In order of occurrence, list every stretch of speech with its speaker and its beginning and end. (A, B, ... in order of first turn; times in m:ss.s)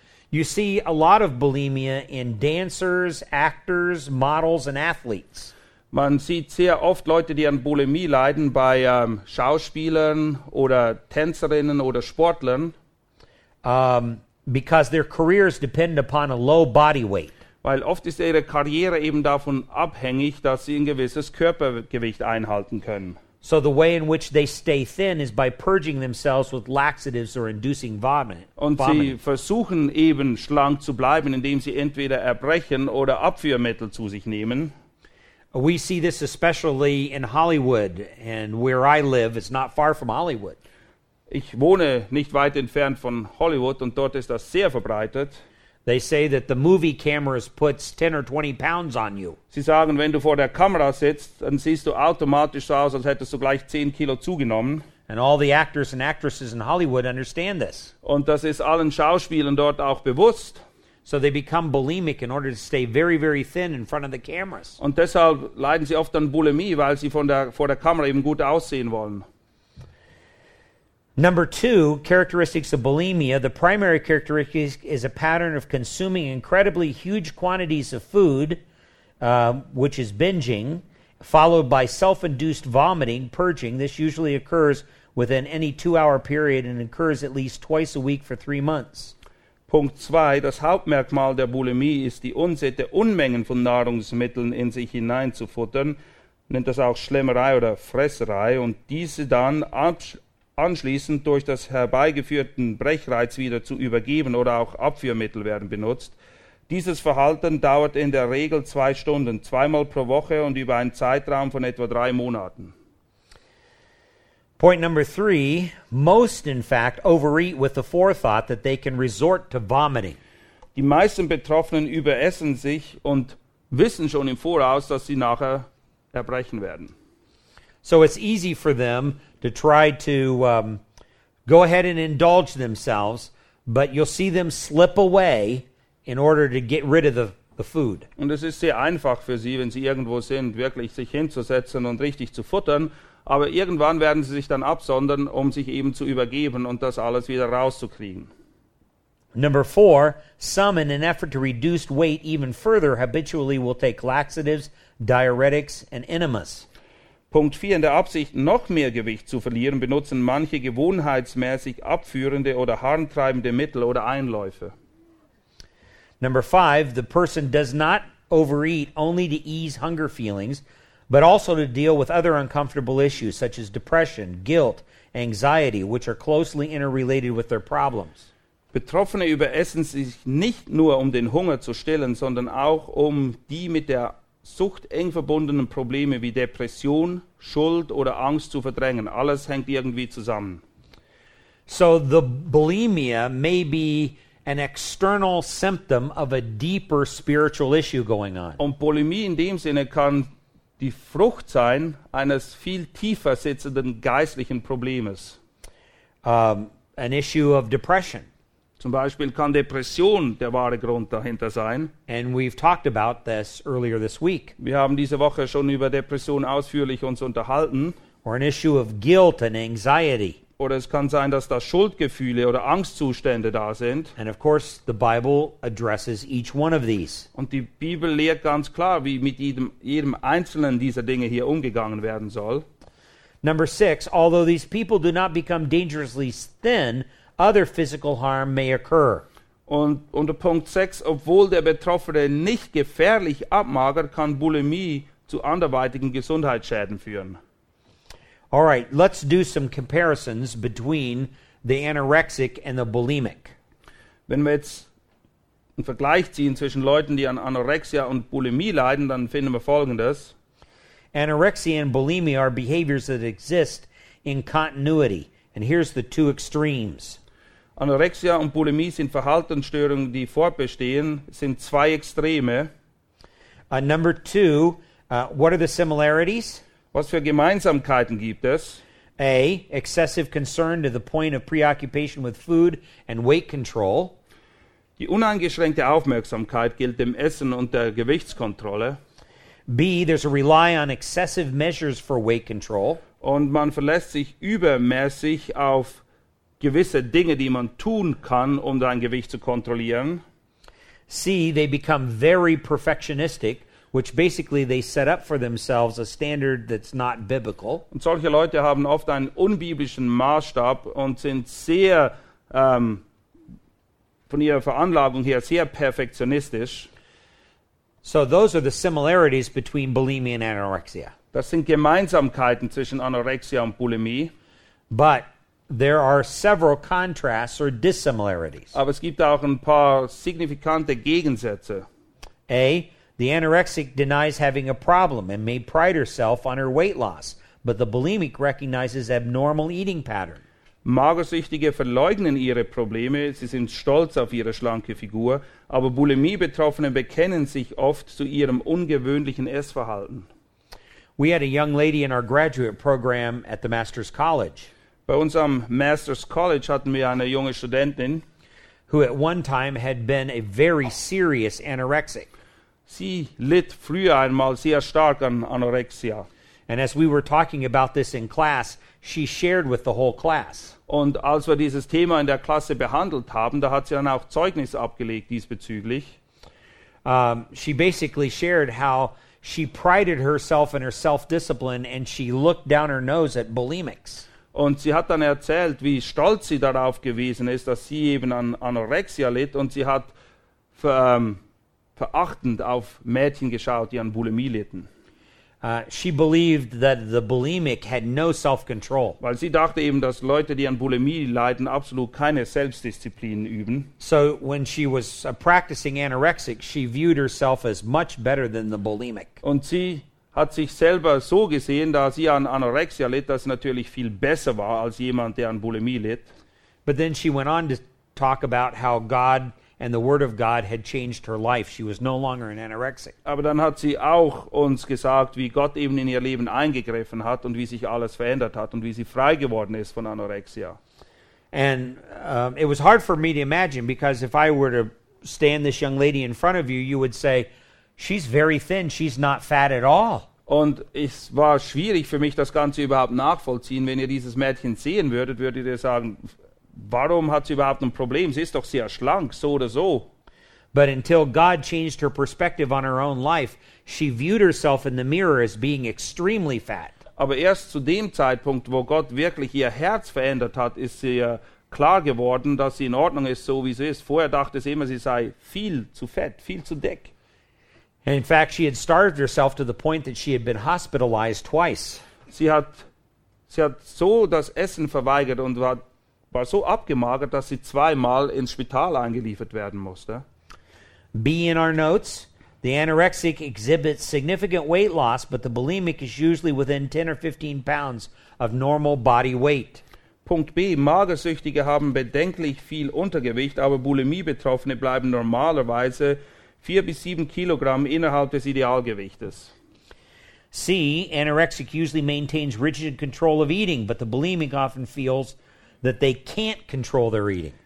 0:00.3-0:05.5 A
0:05.9-0:12.7 B
0:13.6-0:17.3 A
0:17.6-0:23.2 B
0:23.4-0:29.2 A
0:28.6-0:34.7 B
0:35.5-0:40.6 A
0:41.3-0:45.4 B
0:45.8-0:49.4 A
0:49.5-0:54.8 B
0:55.1-0:57.9 A
0:58.0-1:00.6 B
1:01.0-1:04.8 A
1:04.8-1:09.2 B
1:11.2-1:18.6 A
1:19.2-1:29.1 A
1:29.7-1:36.0 B
1:36.5-1:46.1 B
1:46.7-1:52.7 B
1:54.6-2:00.2 A
2:00.8-2:06.9 B
2:07.8-2:10.8 A
2:11.4-2:18.1 A
2:18.2-2:28.3 B
2:29.3-2:36.6 A
2:37.3-2:44.7 B
2:46.2-2:58.3 A
2:58.7-3:10.6 B
3:11.7-3:18.6 A
3:18.6-3:25.4 B
3:26.2-3:28.3 A
3:28.8-3:31.9 B
3:32.1-3:34.5 A
3:34.6-3:37.9 B
3:38.2-3:40.4 A
3:40.6-3:44.1 B
3:44.2-3:47.3 A
3:47.3-3:52.6 B
3:53.4-3:59.2 A
3:59.7-4:07.4 B
4:08.5-4:13.5 A
4:14.3-4:14.9 B
4:15.8-4:20.3 B
4:21.1-4:27.2 A
4:27.8-4:32.7 B
4:33.7-4:36.6 A
4:36.9-4:38.8 B
4:39.2-4:44.2 A
4:45.0-4:49.0 B
4:49.7-4:53.0 A
4:53.2-4:56.0 B
4:56.6-5:00.2 B
5:01.1-5:07.8 A
5:07.9-5:13.0 B
5:14.3-5:16.9 B
5:18.0-5:21.1 A
5:21.3-5:24.3 B
5:24.9-5:28.7 A
5:28.7-5:31.9 B
5:32.5-5:40.4 A
5:40.8-5:50.3 B
5:51.2-5:54.7 A
5:55.1-5:58.2 B
5:58.9-6:02.3 A
6:02.9-6:06.3 B
6:06.7-6:10.8 A
6:10.9-6:16.1 B
6:17.0-6:24.2 A
6:24.5-6:30.1 B
6:30.8-6:31.4 B
6:32.0-6:34.9 B
6:35.6-6:39.2 A
6:39.2-6:43.9 B
6:44.0-6:49.4 A
6:49.4-6:56.3 B
6:56.8-7:03.1 A
7:03.2-7:10.8 B
7:11.5-7:20.3 A
7:20.5-7:30.1 B
7:30.7-7:37.0 A
7:37.2-7:47.1 B
7:48.0-7:52.0 A
7:52.3-7:52.8 B
7:53.5-8:00.2 B
8:01.1-8:09.8 A
8:10.2-8:19.5 B
8:20.5-8:27.5 A